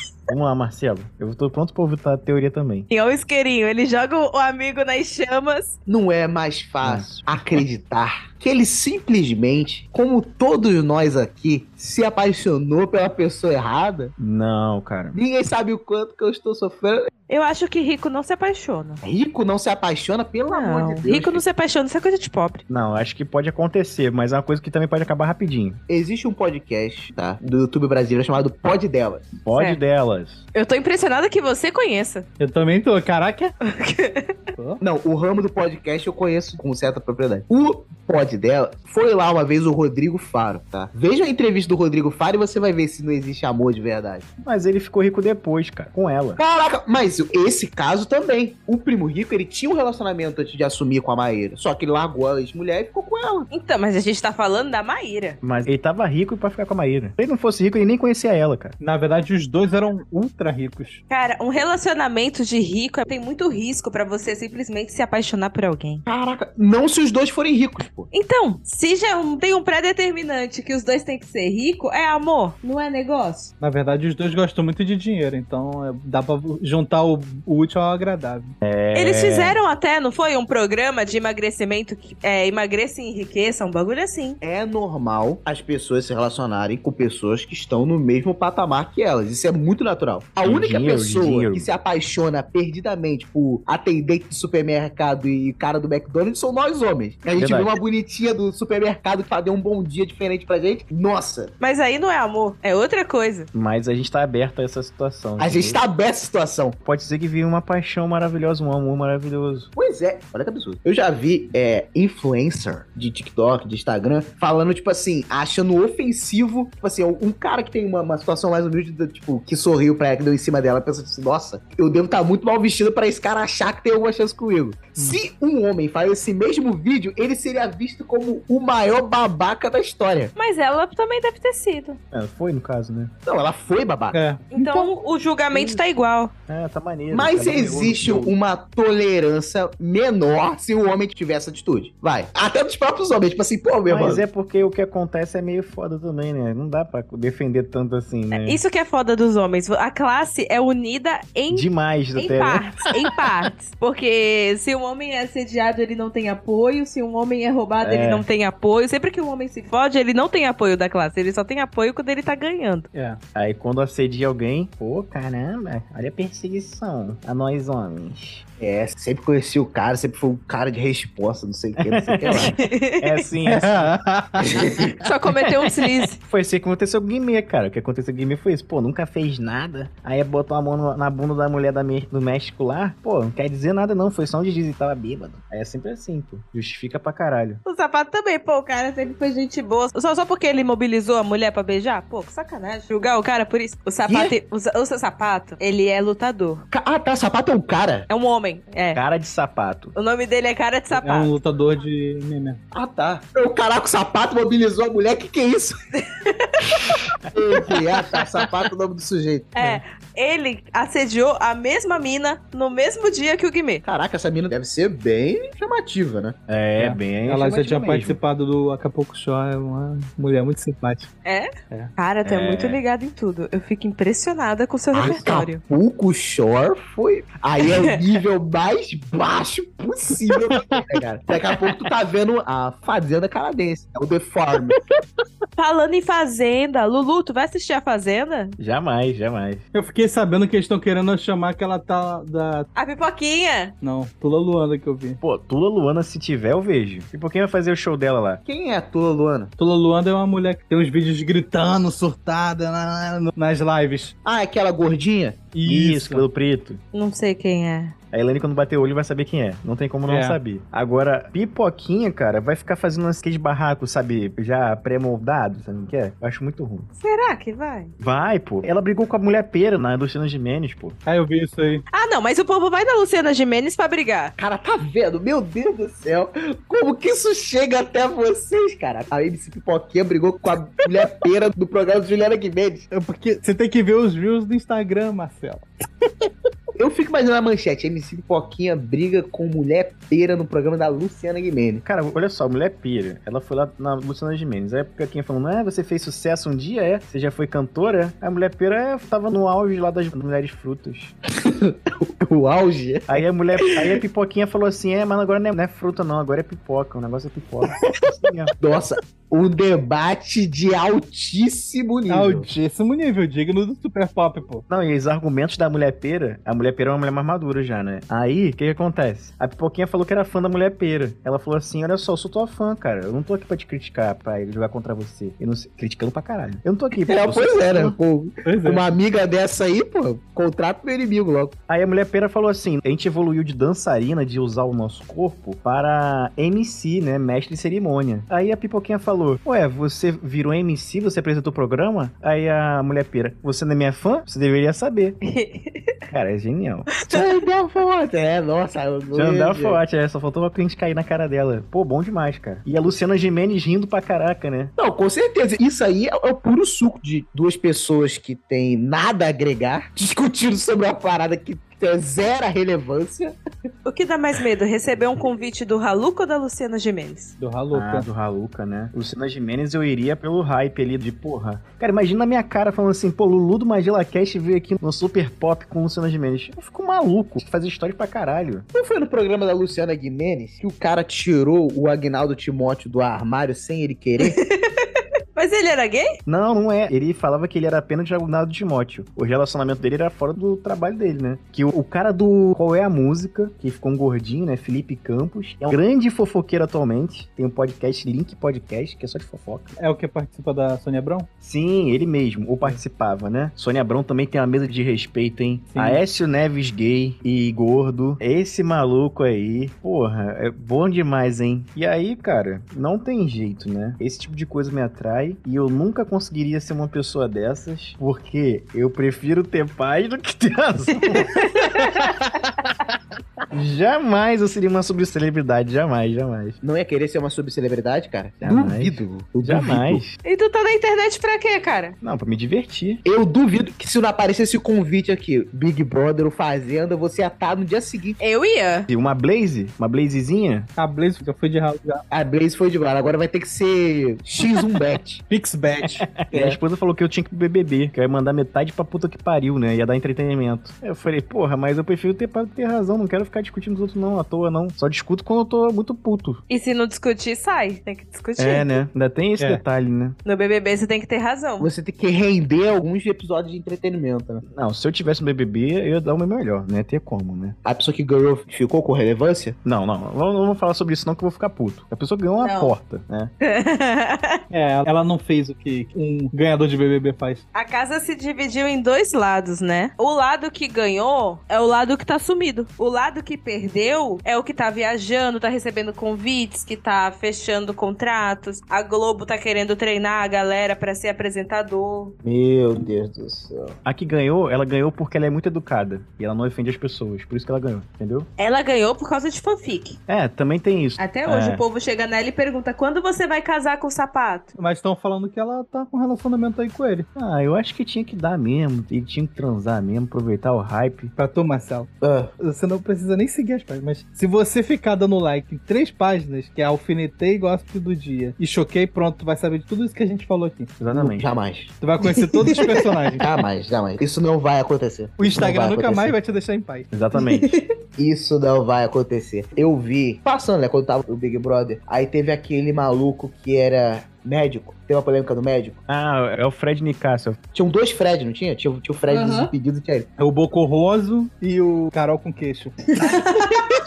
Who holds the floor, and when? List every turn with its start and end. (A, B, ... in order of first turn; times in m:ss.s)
0:00.3-0:02.9 A
0:02.9-0:05.8 B
0:05.9-0:14.1 C
0:06.8-0:07.6 A
0:14.2-0:15.2 A
0:15.2-0:17.1 C
0:17.3-0:19.0 B
0:19.0-0:21.4 C
0:20.5-0:22.6 B
0:22.7-0:25.8 A
0:25.9-0:29.4 C
0:29.4-0:30.4 A
0:29.6-0:29.8 B
0:30.5-0:32.3 B
0:32.4-0:33.5 D
0:33.7-0:34.4 B
0:34.6-0:34.8 D
0:34.8-0:44.3 C
0:44.4-0:46.4 A
0:46.4-0:53.5 C
0:53.5-0:55.4 B
0:55.4-0:58.8 A
0:58.8-1:01.0 D
1:01.1-1:06.0 B
1:06.1-1:08.1 C
1:08.1-1:13.5 B
1:13.6-1:18.5 D
1:18.6-1:19.6 A
1:19.0-1:24.4 B
1:24.4-1:41.5 C
1:30.4-1:31.7 A
1:37.4-1:37.8 A
1:41.6-1:43.5 B
1:43.5-1:45.8 A
1:45.4-1:46.8 C
1:46.8-1:49.7 A
1:49.8-2:10.3 C
2:10.4-2:12.0 B
2:12.1-2:13.1 A
2:13.2-2:14.9 C
2:14.1-2:14.4 D
2:14.5-2:16.3 B
2:15.5-2:15.8 A
2:16.5-2:18.3 A
2:17.1-2:24.2 C
2:23.9-2:28.6 A
2:28.3-2:42.9 B
2:31.5-2:32.7 A
2:37.8-2:38.3 A
2:42.9-2:43.2 D
2:43.4-2:48.4 A
2:48.6-2:52.6 C
2:51.8-2:54.0 A
2:52.3-2:53.2 B
2:53.5-2:54.9 D
2:54.4-2:54.8 C
2:55.0-2:56.2 B
2:56.3-3:07.6 A
3:07.6-3:16.6 B
3:14.0-3:14.4 C
3:16.7-3:18.1 C
3:18.1-3:19.0 B
3:18.9-3:19.9 A
3:20.0-3:21.3 B
3:21.0-3:22.6 D
3:22.7-3:25.8 C
3:26.0-3:27.0 B
3:27.3-3:29.5 C
3:29.6-3:33.8 B
3:29.6-3:29.8 D
3:33.8-3:36.4 C
3:36.5-3:38.2 A
3:36.8-3:41.1 D
3:41.2-3:45.6 B
3:42.2-3:42.8 A
3:44.9-3:54.8 C
3:50.6-3:50.9 D
3:55.6-3:58.6 B
3:58.6-3:59.6 A
3:59.7-4:02.7 D
4:02.8-4:03.7 B
4:03.8-4:05.2 D
4:05.2-4:08.4 A
4:08.4-4:09.5 C
4:09.6-4:14.1 D
4:14.2-4:15.5 C
4:15.6-4:16.2 D
4:15.6-4:16.8 A
4:16.9-4:18.0 B
4:18.1-4:26.9 A
4:20.1-4:20.4 D
4:27.0-4:27.9 B
4:28.0-4:31.0 A
4:31.1-4:31.8 D
4:31.9-4:34.3 B
4:34.4-4:42.8 C
4:42.9-4:45.7 D
4:46.8-4:51.8 C
4:51.8-5:01.2 A
5:01.4-5:03.1 C
5:03.1-5:08.5 A
5:08.6-5:12.5 C
5:12.1-5:14.6 D
5:14.7-5:28.0 A
5:27.1-5:31.5 C
5:28.4-5:28.8 D
5:31.7-5:45.2 A
5:45.2-5:46.0 B
5:46.1-5:46.9 A
5:47.1-5:49.8 C
5:49.1-5:54.7 A
5:54.8-6:03.3 C
6:03.9-6:07.3 B
6:07.4-6:08.1 D
6:07.7-6:18.7 A
6:18.7-6:24.4 C
6:24.2-6:26.2 B
6:26.3-6:39.7 A
6:39.8-6:41.3 D
6:41.4-7:01.9 A
6:45.7-6:46.0 D
7:01.1-7:02.1 B
7:03.5-7:06.6 A
7:06.6-7:10.0 C
7:08.4-7:10.2 A
7:10.2-7:12.0 B
7:12.0-7:13.0 A
7:13.0-7:18.2 C
7:18.2-7:18.9 B
7:18.9-7:20.7 A
7:20.8-7:22.0 D
7:22.1-7:25.2 C
7:25.3-7:26.1 D
7:25.8-7:36.4 A
7:26.3-7:26.6 C
7:36.5-7:38.7 B
7:38.4-7:40.2 A
7:40.2-7:41.7 B
7:41.6-7:44.4 C
7:44.5-7:47.6 A
7:47.6-7:49.6 C
7:49.6-7:53.3 A
7:52.4-7:52.7 B
7:53.4-7:54.4 B
7:54.5-7:57.4 D
7:57.5-8:12.2 B
8:12.2-8:13.8 C
8:13.8-8:18.3 A
8:18.4-8:20.0 B
8:20.1-8:21.6 A
8:21.0-8:24.5 B
8:24.6-8:27.1 D
8:27.2-8:31.1 A
8:31.2-8:40.8 D
8:32.0-8:32.3 C
8:40.8-8:41.3 A
8:40.9-8:41.7 C
8:41.8-8:43.3 D
8:42.4-8:46.1 C
8:45.2-8:46.9 D
8:46.9-8:47.6 A
8:47.2-8:47.7 B
8:48.0-8:55.8 C
8:55.9-8:57.4 A
8:57.5-9:00.1 C
8:59.1-8:59.5 B
9:00.2-9:02.9 D
9:03.0-9:03.6 B